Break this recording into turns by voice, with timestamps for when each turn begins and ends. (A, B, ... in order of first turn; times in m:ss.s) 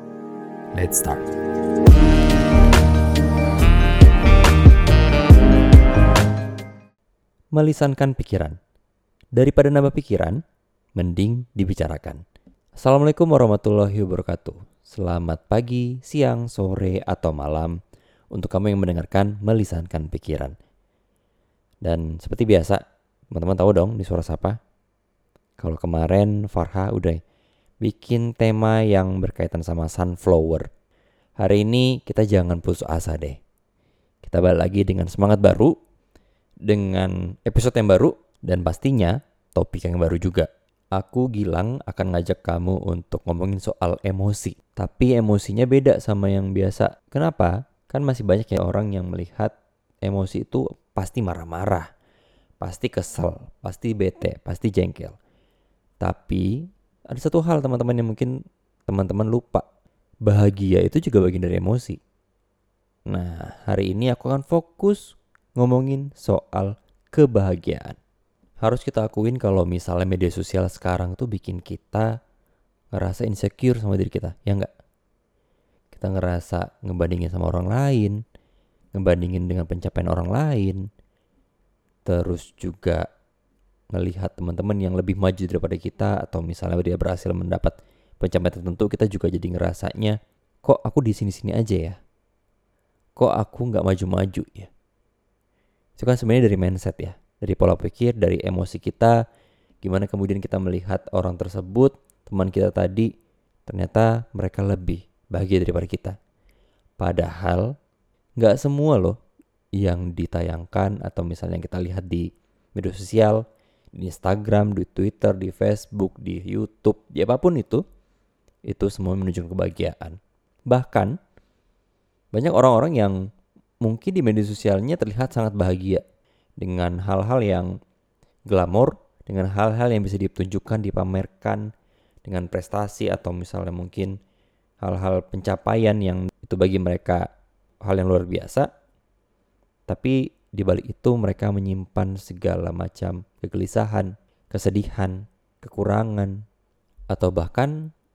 0:00.8-0:01.2 A
0:07.6-0:08.6 A
0:09.4-0:10.4 A
0:11.0-0:12.2 A
0:12.8-0:17.8 A
0:18.3-0:20.5 A
0:21.8-0:22.8 A
0:23.3-0:24.6 A
0:25.6-0:27.2 A
0:27.8-0:30.7 A
0:31.4-0:33.4 A
0:34.2-0:35.7 A
0:36.7-0:49.5 A
0:50.0-0:51.9 A
0:52.6-0:55.2 A
0:56.0-0:58.3 A
0:58.9-0:59.6 A
1:00.3-1:02.0 A
1:03.1-1:08.0 A
1:08.6-1:12.1 A
1:12.9-1:14.7 A
1:15.9-1:18.2 A
1:18.9-1:20.8 A
1:22.0-1:23.1 A
1:23.9-1:32.0 A
1:33.2-1:34.7 A
1:36.0-1:39.2 A
1:39.8-1:43.1 A
1:43.7-1:46.2 A
1:47.0-1:47.7 A
1:48.4-1:49.2 A
1:49.8-1:53.4 A
1:54.0-1:57.8 A
1:58.7-2:00.2 A
2:00.7-2:01.2 A
2:02.3-2:03.2 A
2:03.8-2:06.0 A
2:06.6-2:07.7 A
2:08.5-2:11.6 A
2:12.2-2:14.1 A
2:14.8-2:17.3 A
2:17.8-2:18.7 A
2:19.9-2:26.4 A
2:27.1-2:27.9 A